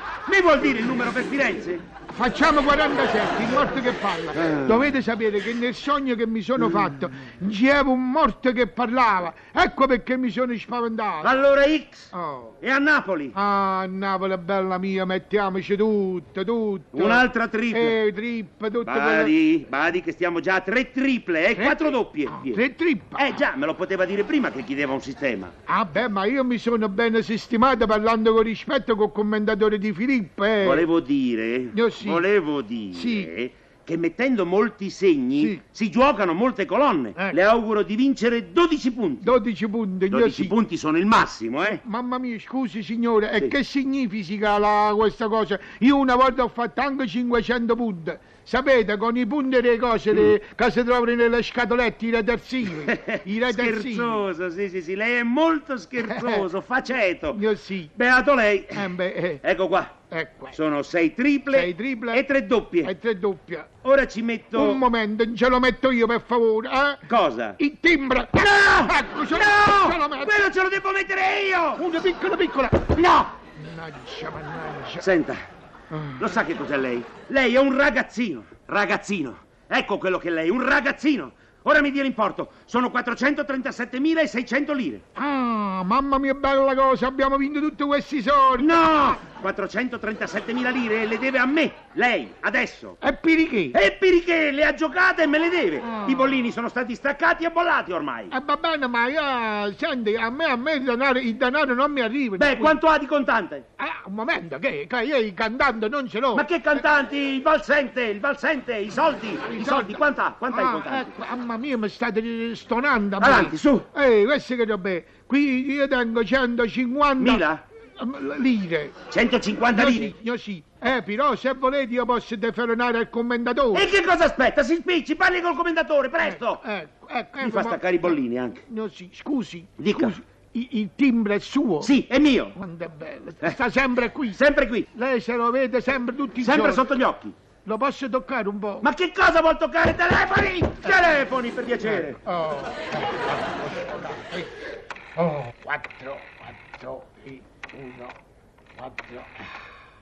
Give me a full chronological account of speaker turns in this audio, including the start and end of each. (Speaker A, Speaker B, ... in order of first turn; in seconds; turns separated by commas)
Speaker A: 0.3-1.8, Speaker B: 2.1-11.3, Speaker A: 4.3-4.9, Speaker A: 11.2-12.1, Speaker B: 12.1-12.6, Speaker A: 12.6-13.3, Speaker B: 13.3-19.3, Speaker A: 16.9-18.0, Speaker A: 18.8-22.6, Speaker B: 21.5-23.3, Speaker A: 23.1-25.5, Speaker B: 25.7-30.9, Speaker A: 30.6-39.4, Speaker B: 31.7-32.2, Speaker B: 32.9-33.3, Speaker B: 39.2-40.5, Speaker A: 40.1-41.8, Speaker B: 41.6-54.2, Speaker A: 52.7-57.4, Speaker B: 56.0-56.5, Speaker B: 57.3-57.9, Speaker A: 58.0-59.9, Speaker B: 58.7-59.4, Speaker B: 60.1-60.5, Speaker A: 60.5-62.9, Speaker B: 61.5-62.2, Speaker B: 62.8-63.7, Speaker A: 63.8-64.8, Speaker B: 64.5-70.5, Speaker A: 67.1-67.6, Speaker A: 68.3-71.8, Speaker B: 71.7-72.9, Speaker A: 72.9-73.3, Speaker B: 73.5-75.1, Speaker A: 75.0-75.4, Speaker B: 75.9-76.3, Speaker A: 76.2-85.0, Speaker B: 85.1-89.2, Speaker A: 88.6-93.0, Speaker B: 93.0-93.8, Speaker A: 93.7-98.3, Speaker B: 95.8-96.5, Speaker B: 98.3-102.8, Speaker A: 102.4-103.6, Speaker B: 103.8-106.8, Speaker A: 106.3-111.1, Speaker B: 109.5-117.4, Speaker A: 113.2-113.9, Speaker A: 117.2-117.6, Speaker B: 118.0-119.0, Speaker A: 119.1-120.1, Speaker B: 119.7-123.9, Speaker A: 123.7-126.6, Speaker B: 126.2-128.1, Speaker A: 127.4-128.6, Speaker B: 128.7-131.9, Speaker A: 129.8-130.2, Speaker A: 131.8-132.6, Speaker B: 132.5-134.4, Speaker A: 134.3-134.9, Speaker B: 134.9-136.8, Speaker A: 136.4-137.3, Speaker B: 137.6-138.9, Speaker A: 138.8-142.2, Speaker B: 141.8-144.5, Speaker B: 145.2-148.2, Speaker B: 148.8-149.4